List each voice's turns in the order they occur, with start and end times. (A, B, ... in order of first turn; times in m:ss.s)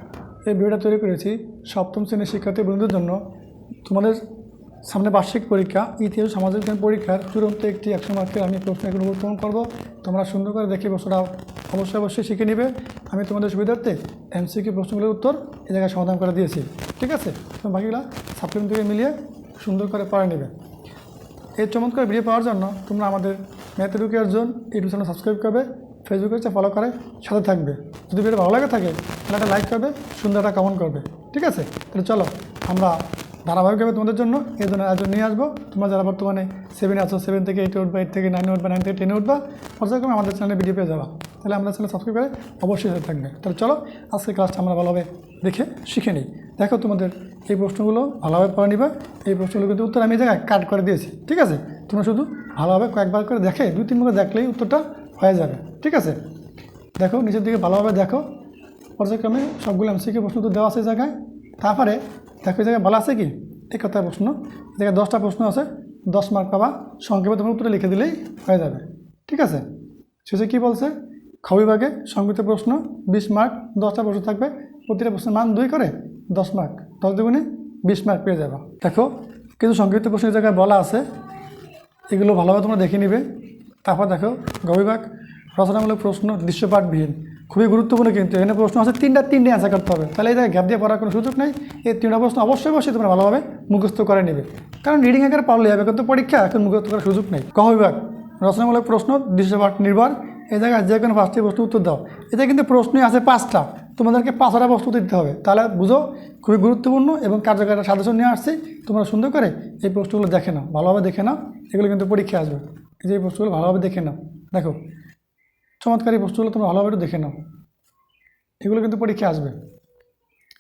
0:00.4-0:03.2 A
0:03.8-0:04.2 A
0:04.8-0:20.5 A
0:21.6-0:56.2 A
0:57.0-0:58.3 A
0:59.0-1:09.6 A
1:10.2-1:21.0 A
1:22.1-1:23.2 A
1:23.8-1:54.8 A
1:55.8-1:57.4 A
1:58.6-1:59.6 A